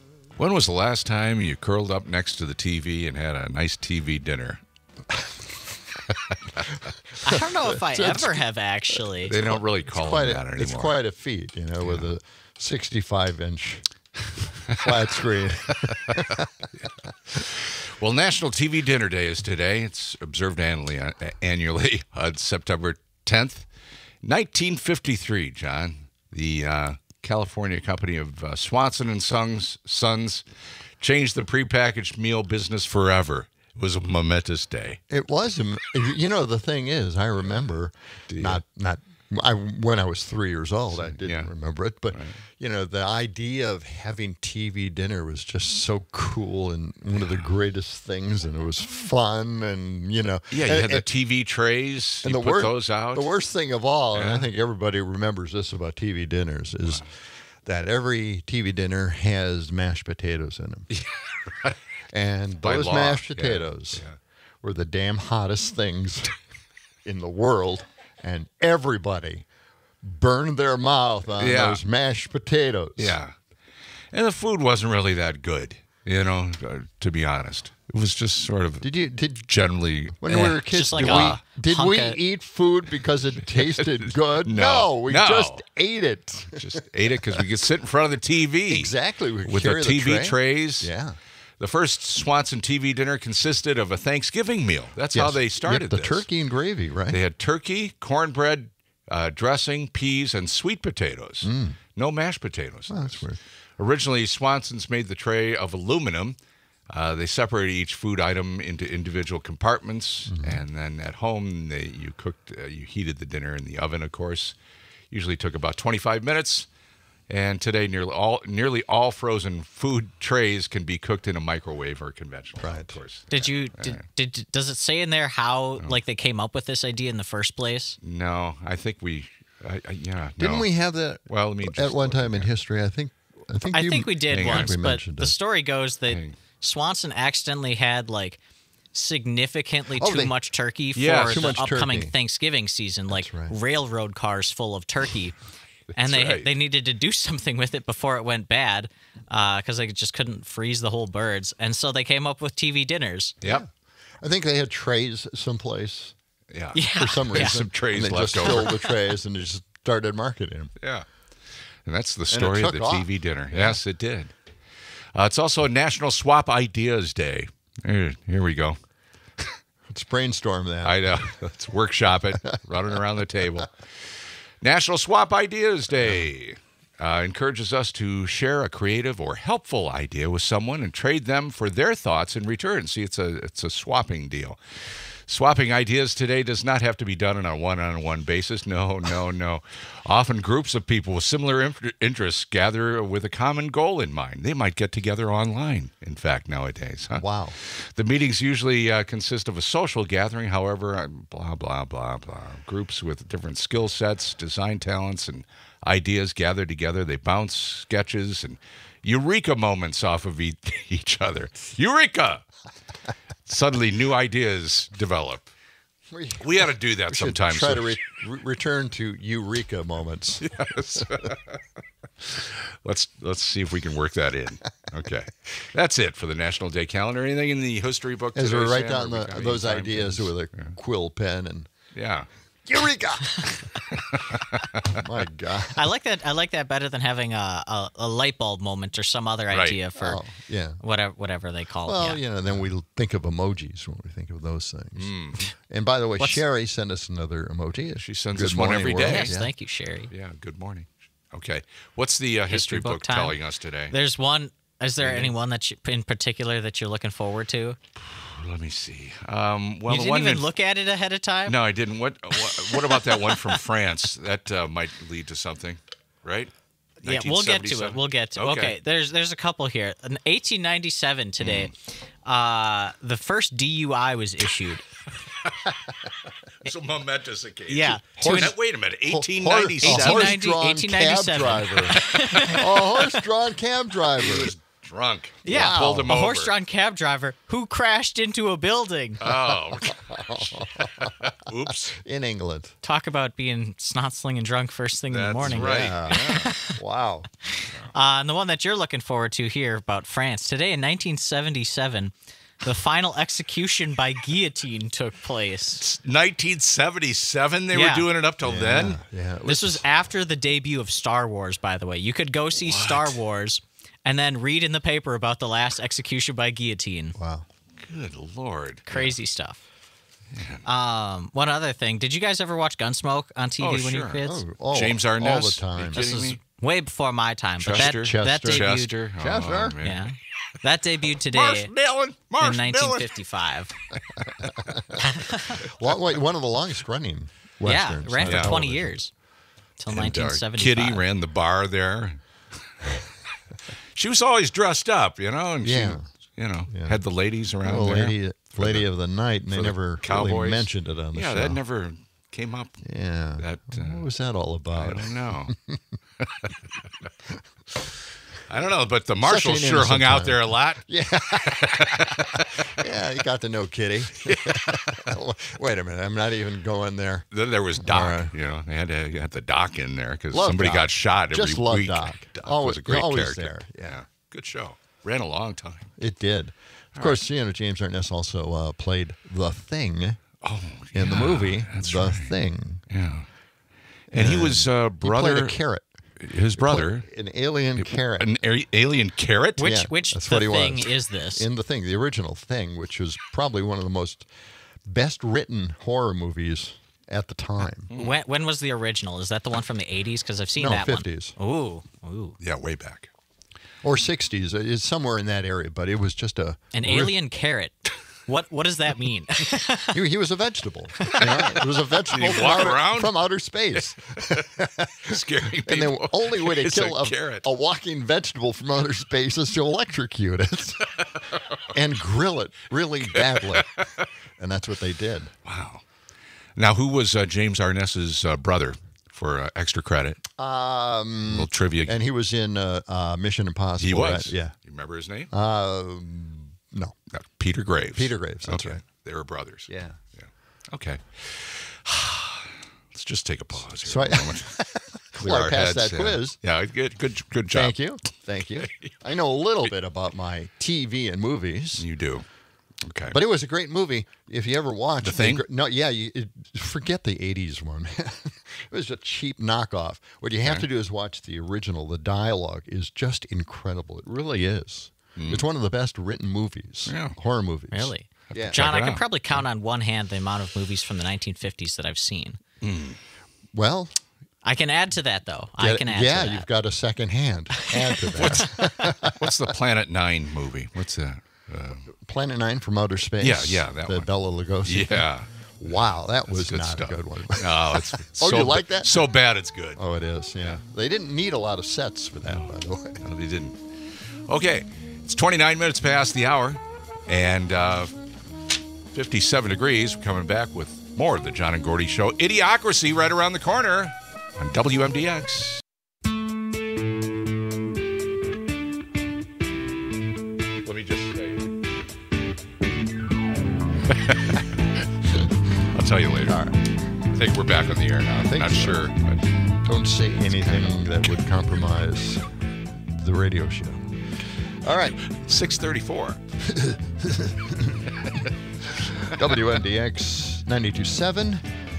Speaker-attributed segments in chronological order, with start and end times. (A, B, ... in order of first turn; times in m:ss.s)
0:00.4-0:04.6 A
0:05.1-0:05.4 B
0:07.2-0:09.4 C
0:07.3-0:08.4 B
0:09.3-0:11.0 A
0:09.4-0:16.5 B
0:16.8-0:23.7 A
0:24.2-0:30.4 A
0:31.0-0:35.0 A
0:35.1-0:51.1 B
0:38.3-0:38.6 A
0:40.9-0:41.5 A
0:42.1-0:42.4 A
0:50.5-0:53.3 A
0:52.2-0:57.1 B
0:54.1-0:54.5 A
0:57.6-1:00.9 B
1:00.9-1:01.8 A
1:02.1-1:04.1 B
1:02.6-1:04.2 A
1:04.6-1:06.3 B
1:07.0-1:09.5 B
1:10.0-1:13.2 B
1:11.4-1:11.8 A
1:13.0-1:13.3 A
1:14.1-1:18.9 A
1:18.8-1:19.5 B
1:19.5-1:21.4 A
1:20.2-1:26.8 B
1:20.7-1:22.2 C
1:23.5-1:25.6 A
1:26.5-1:28.9 A
1:28.7-1:31.2 B
1:29.4-1:30.9 A
1:31.6-1:36.3 A
1:35.1-1:37.2 B
1:37.1-1:43.2 A
1:41.4-1:41.8 B
1:42.9-1:43.4 B
1:43.8-1:46.4 A
1:46.9-1:54.6 A
1:50.3-1:50.6 B
1:55.1-1:56.7 A
1:57.3-2:04.0 A
2:02.6-2:03.0 B
2:03.3-2:08.0 C
2:08.0-2:10.7 A
2:10.4-2:15.3 B
2:11.3-2:12.5 A
2:13.7-2:18.4 C
2:14.3-2:14.8 A
2:16.1-2:16.4 A
2:18.9-2:25.4 C
2:20.0-2:20.3 B
2:21.0-2:21.5 A
2:21.3-2:22.1 B
2:23.1-2:23.6 B
2:26.0-2:33.4 C
2:26.0-2:26.5 A
2:33.4-2:33.7 B
2:34.2-2:36.2 B
2:36.5-2:38.8 A
2:36.8-2:37.6 C
2:36.9-2:40.7 B
2:40.8-2:41.1 A
2:41.8-2:44.3 A
2:42.3-2:43.8 B
2:45.2-2:48.8 A
2:49.9-2:51.3 B
2:50.8-3:32.4 A
2:56.0-2:56.3 B
3:17.1-3:17.6 B
3:33.5-3:35.5 A
3:36.1-3:40.5 B
3:36.4-3:38.0 A
3:40.4-3:41.6 A
3:42.2-3:50.8 A
3:48.4-3:51.7 B
3:52.0-3:52.3 A
3:52.7-3:54.4 B
3:53.9-3:55.0 A
3:54.9-3:55.8 B
3:55.7-4:00.2 C
3:59.5-3:59.8 A
4:00.0-4:00.8 B
4:00.8-4:02.2 C
4:01.9-4:09.5 B
4:05.0-4:05.4 A
4:08.0-4:09.3 A
4:09.0-4:10.1 C
4:10.1-4:14.0 A
4:12.5-4:13.4 C
4:13.9-4:17.8 C
4:15.0-4:15.3 A
4:18.0-4:20.5 A
4:19.9-4:21.6 C
4:21.5-4:26.5 A
4:22.4-4:23.6 C
4:27.0-4:28.7 A
4:27.0-4:31.7 C
4:31.4-4:31.7 A
4:32.2-4:34.9 C
4:36.6-4:40.4 A
4:37.7-4:38.5 C
4:38.2-4:44.6 B
4:39.8-4:43.2 C
4:42.1-4:42.5 A
4:44.2-4:46.5 A
4:45.4-4:46.1 B
4:45.5-4:49.2 C
4:49.2-4:52.0 A
4:50.0-4:51.1 B
4:52.0-4:52.8 B
4:52.8-4:56.8 C
4:55.1-4:56.5 A
4:55.4-4:57.3 B
4:57.9-5:05.8 C
5:05.8-5:09.0 A
5:07.7-5:08.1 C
5:08.4-5:09.9 B
5:09.5-5:17.2 C
5:12.6-5:13.2 A
5:17.2-5:17.5 B
5:17.8-5:19.2 A
5:18.9-5:19.6 C
5:20.3-5:20.6 A
5:20.6-5:24.4 C
5:23.6-5:26.4 A
5:24.2-5:26.0 B
5:26.0-5:29.0 C
5:27.6-5:30.1 A
5:27.7-5:29.8 B
5:29.8-5:31.7 C
5:31.2-5:33.1 A
5:32.4-5:33.7 C
5:35.0-5:35.6 C
5:35.6-5:39.0 B
5:37.6-5:39.1 C
5:38.2-5:38.6 A
5:39.8-5:41.0 C
5:39.9-5:42.2 A
5:44.0-5:48.9 A
5:45.6-5:46.0 B
5:46.7-5:47.0 B
5:47.6-5:51.6 B
5:49.5-5:52.8 A
5:52.8-5:55.8 B
5:53.4-5:54.0 A
5:54.7-5:55.5 A
5:56.2-5:56.5 A
5:58.5-6:02.8 A
5:59.2-6:07.3 B
6:04.3-6:05.2 A
6:07.3-6:15.9 A
6:07.8-6:08.3 B
6:10.3-6:14.0 B
6:16.0-6:20.2 B
6:17.0-6:17.2 A
6:20.4-6:22.4 A
6:20.9-6:22.8 B
6:22.9-6:23.3 A
6:24.1-6:25.9 B
6:24.1-6:25.6 A
6:26.2-6:27.1 A
6:26.6-6:28.4 B
6:27.8-6:29.8 A
6:29.6-6:31.5 C
6:29.6-6:34.3 B
6:34.8-6:37.9 B
6:37.9-6:38.2 A
6:38.0-6:42.4 C
6:40.6-6:41.3 B
6:42.4-6:43.1 A
6:43.8-6:47.1 B
6:46.7-6:50.0 C
6:49.9-7:00.9 B
6:51.2-6:51.5 A
6:52.1-6:53.2 A
6:53.8-6:54.5 A
6:55.0-6:57.5 A
7:01.3-7:01.6 A
7:01.7-7:03.7 B
7:03.3-7:04.0 A
7:04.4-7:05.3 B
7:05.4-7:05.8 A
7:06.6-7:10.2 A
7:10.4-7:14.5 B
7:11.3-7:12.0 A
7:13.8-7:15.3 A
7:15.3-7:17.0 B
7:17.1-7:24.5 A
7:17.9-7:18.8 B
7:19.7-7:20.0 B
7:23.8-7:26.4 B
7:25.1-7:27.8 A
7:27.5-7:31.9 B
7:31.8-7:32.2 A
7:32.8-7:33.2 A
7:33.1-7:48.7 B
7:35.0-7:35.4 A
7:45.2-7:45.5 A
7:46.9-7:47.2 A
7:47.7-7:52.4 C
7:48.3-7:49.4 A
7:52.6-7:53.0 A
7:53.5-7:54.0 B
7:54.4-7:56.5 C
7:55.6-7:59.4 B
7:58.2-8:01.8 A
7:58.4-7:58.8 C
8:01.9-8:05.1 B
8:03.2-8:04.1 A
8:04.6-8:05.3 A
8:05.6-8:09.0 B
8:06.3-8:09.8 A
8:09.8-8:13.0 B
8:13.0-8:13.6 A
8:14.3-8:17.9 A
8:18.9-8:25.6 A
8:30.6-8:31.5 A
8:33.9-8:36.4 A
8:36.3-8:36.6 B
8:37.1-8:39.3 A
8:38.2-8:38.8 B
8:39.6-8:42.2 B
8:40.4-8:40.8 A
8:42.9-8:43.9 B
8:44.5-8:45.0 B
8:45.0-8:46.2 A
8:46.4-8:47.9 B
8:48.0-8:48.3 A
8:48.7-8:51.5 B